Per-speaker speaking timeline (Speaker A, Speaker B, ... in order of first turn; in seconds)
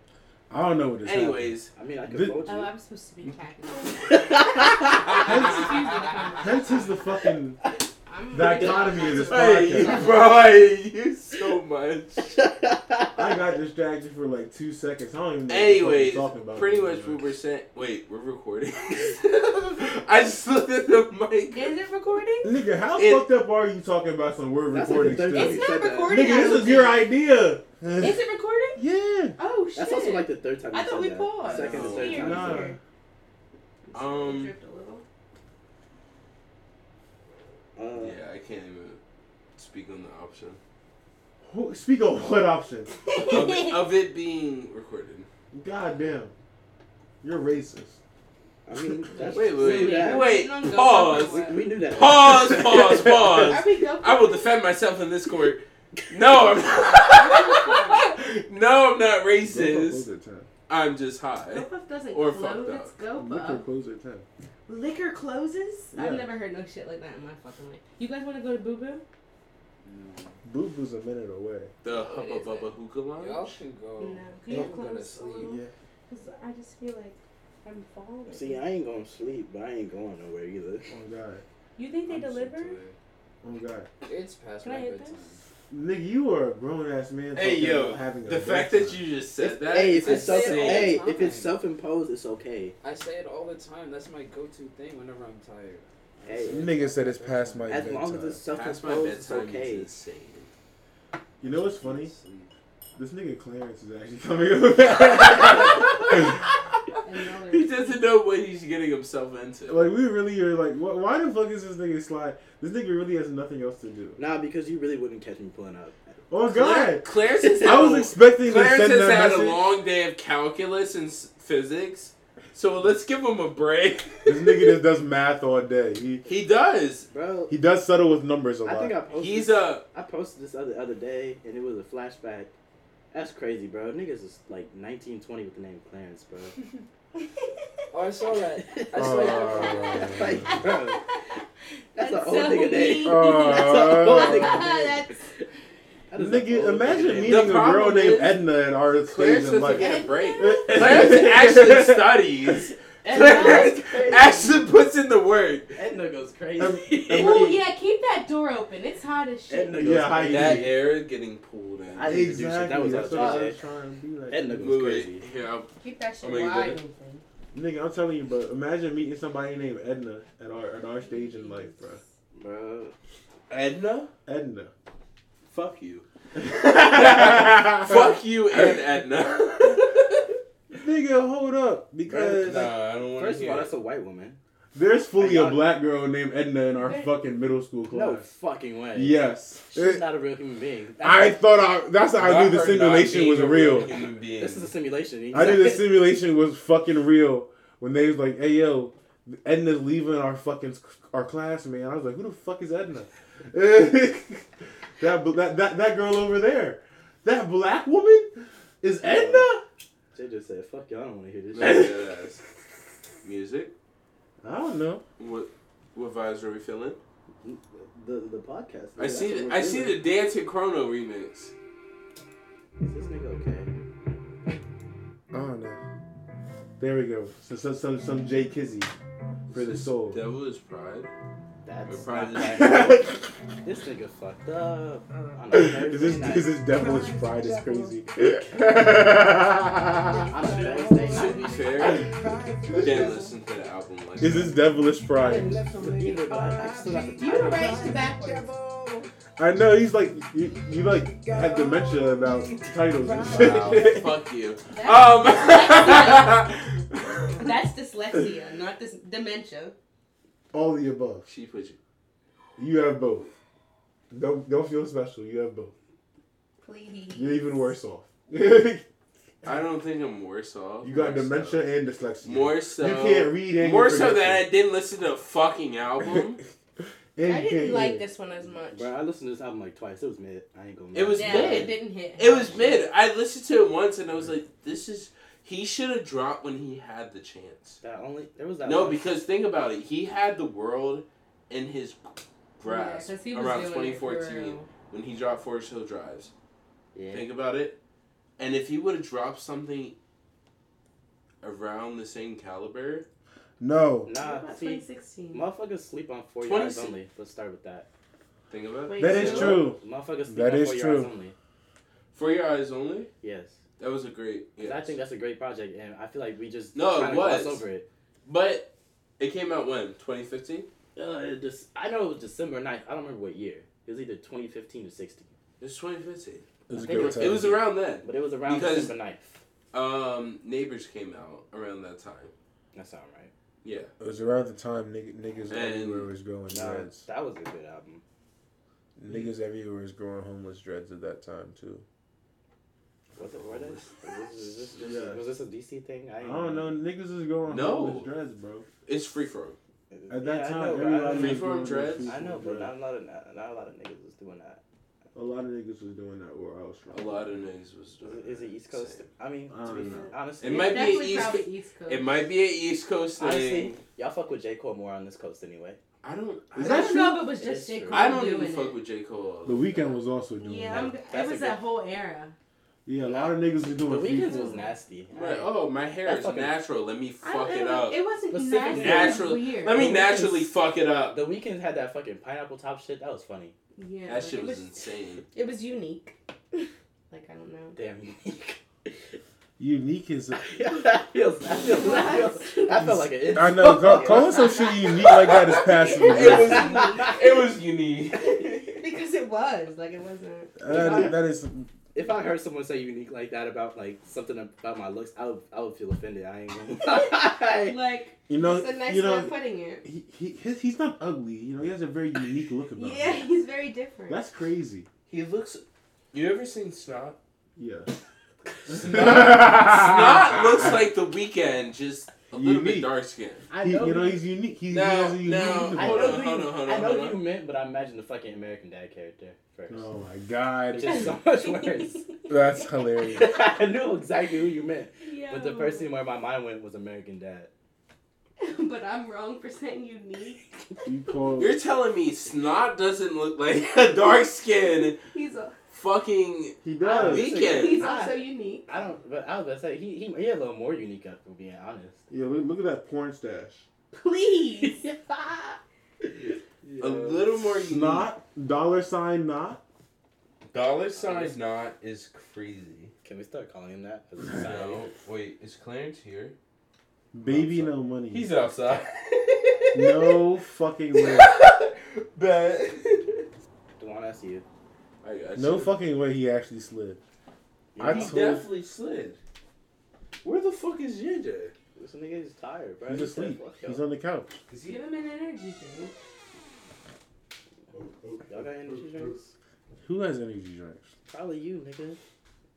Speaker A: 0.5-1.5, 2.0-2.4, 5.2-5.7, 6.4-7.6, 8.3-10.1, 13.1-17.3, 22.4-28.2, 28.8-29.4, 32.0-32.8, 41.4-42.9, 45.5-46.3, 47.2-48.0, 59.4-60.5, 63.1-64.2, 65.9-66.3, 70.4-71.7, 75.4-75.7, 80.9-81.4, 83.4-83.9, 85.7-89.0, 96.5-98.4, 101.4-102.1, 103.0-106.4, 109.7-114.2, 116.3-117.1, 117.6-119.7, 124.2-126.2, 127.5-128.9, 138.9-140.6, 142.9-144.7, 146.1-152.7, 156.6-157.6, 159.7-160.7, 162.0-164.8, 167.5-172.0, 174.2-174.7, 176.4-178.0, 180.7-182.7, 184.7-188.2, 188.9-190.1, 191.0-193.9, 195.3-204.5, 205.0-209.6, 214.4-215.0, 225.3-225.8, 226.8-228.9, 229.5-230.2, 232.5-233.3, 235.5-240.4, 242.7-243.0, 244.2-245.8, 249.4-254.1, 260.5-261.3, 262.6-263.3, 264.1-265.7, 267.1-268.8, 270.8-274.4, 277.1-278.0, 303.6-304.1, 309.0-311.1, 326.7-327.6, 334.0-337.0, 339.0-341.8, 344.8-345.2, 346.2-348.6, 350.1-352.7, 355.1-357.4, 359.5-360.1, 366.5-367.2, 369.4-370.9, 372.9-374.6, 389.6-390.5, 392.7-396.8, 400.6-401.7, 408.3-413.3, 414.1-414.9, 417.6-417.9, 418.7-420.8, 422.3-422.9, 423.6-426.2, 429.7-431.2, 432.3-433.4, 440.8-441.6, 446.6-447.3, 452.1-453.6, 457.5-459.6, 467.1-468.3, 469.7-471.3, 475.4-477.0, 477.8-478.4, 482.8-484.4, 489.8-490.9
Speaker B: 1.0-1.7, 5.0-5.5, 9.2-12.4, 15.5-21.7, 22.9-23.3, 31.4-32.4, 33.9-34.5, 37.9-39.0, 39.5-40.6, 43.1-45.3, 49.3-60.0, 60.7-62.9, 71.8-73.5, 87.3-91.0, 98.5-100.5, 107.5-109.9, 116.5-124.8, 126.2-127.1, 129.1-129.8, 147.2-148.4, 149.1-155.7, 160.2-162.4, 163.1-163.4, 164.6-166.8, 173.5-174.1, 175.5-176.0, 176.6-180.3, 182.4-183.7, 192.2-194.7, 211.5-212.4, 213.2-213.7, 215.2-217.0, 218.9-221.5, 229.5-231.1, 231.9-232.9, 241.1-242.1, 242.7-244.6, 253.2-257.3, 261.2-261.8, 269.4-271.7, 272.2-276.4, 280.9-287.8, 288.6-296.3, 297.1-297.8, 298.4-299.9, 301.4-303.1, 306.4-307.0, 308.5-309.6, 312.1-313.1, 313.8-315.0, 316.7-317.6, 318.2-320.7, 325.6-328.9, 329.7-332.3, 333.6-333.9, 335.5-336.1, 343.3-344.2, 347.4-348.1, 348.9-349.6, 351.1-352.1, 356.9-359.1, 360.4-363.8, 366.0-367.0, 367.9-369.8, 375.1-378.0, 378.7-381.2, 384.1-385.2, 395.3-398.7, 415.1-417.2, 418.7-423.5, 424.7-427.2, 441.4-445.0, 445.7-447.9, 456.8-458.1, 460.5-462.9, 464.4-466.4, 467.2-470.1, 470.9-473.2, 475.0-475.8, 477.8-479.2, 480.2-481.5, 484.5-484.8
Speaker C: 1.7-2.7, 3.9-5.4, 8.4-9.2, 12.3-13.4, 24.7-26.6, 29.8-32.7, 37.8-38.2, 48.6-50.3, 50.9-53.6, 78.3-80.9, 89.4-92.8, 96.2-96.7, 97.7-99.9, 114.2-116.2, 117.4-117.9, 127.1-127.5, 128.6-132.5, 133.1-136.5, 138.5-141.0, 141.9-145.2, 146.1-147.6, 153.0-154.7, 155.7-157.6, 159.5-160.8, 161.9-163.6, 164.3-165.2, 172.3-172.9, 182.1-184.4, 185.2-185.7, 187.9-191.4, 194.3-195.9, 209.0-209.5, 210.1-212.0, 217.4-220.0, 222.8-223.7, 231.6-233.1, 233.6-236.6, 240.3-241.4, 245.2-247.8, 278.7-281.7, 287.8-289.1, 296.9-297.3, 304.0-307.9, 309.2-311.3, 313.2-313.6, 314.6-317.9, 320.9-325.3, 326.7-329.4, 332.7-333.3, 336.5-338.0, 343.1-346.7, 349.9-354.6, 358.0-361.1, 363.2-365.8, 367.3-368.1, 370.9-371.6, 373.2-376.5, 378.3-380.4, 381.1-383.5, 387.8-388.9, 390.4-394.9, 396.5-397.2, 400.6-401.2, 401.9-407.8, 423.5-424.2, 425.7-429.9, 430.7-432.1, 433.1-437.5, 446.8-452.0, 454.7-455.6, 460.9-461.4, 463.0-464.9, 473.8-474.4, 477.7-478.2, 481.8-483.8, 488.2-489.3, 491.1-492.0
Speaker D: 2.5-6.8, 8.1-10.2, 21.5-22.5, 25.3-27.1, 28.0-28.8, 29.4-32.8, 33.9-35.0, 43.1-43.8, 49.1-51.6, 53.4-54.6, 56.5-58.1, 61.5-63.6, 64.7-69.0, 71.9-72.7, 74.0-78.7, 81.8-82.8, 84.6-85.2, 107.0-108.1, 139.7-141.2, 141.9-145.2, 149.7-150.9, 157.1-159.9, 165.8-167.2, 171.1-171.8, 186.8-187.1, 247.1-248.5, 254.7-256.5, 257.4-259.7, 266.6-267.4, 277.2-278.9, 281.1-282.8, 292.6-294.7, 304.1-305.4, 308.9-309.7, 359.8-362.1, 366.6-368.8, 370.4-372.3, 374.2-374.7, 377.2-379.9, 383.8-384.8, 385.3-387.8, 391.5-392.9, 394.0-394.9, 395.5-397.2, 398.2-400.5, 407.6-409.8, 412.8-414.2, 431.3-432.1, 435.0-435.9, 438.4-440.5, 445.0-445.5, 447.3-448.7, 453.9-454.8, 484.6-485.9
Speaker E: 69.8-70.3, 73.2-75.6, 82.1-82.9, 84.0-85.4, 90.0-91.5, 92.8-97.9, 101.5-102.5, 137.9-140.0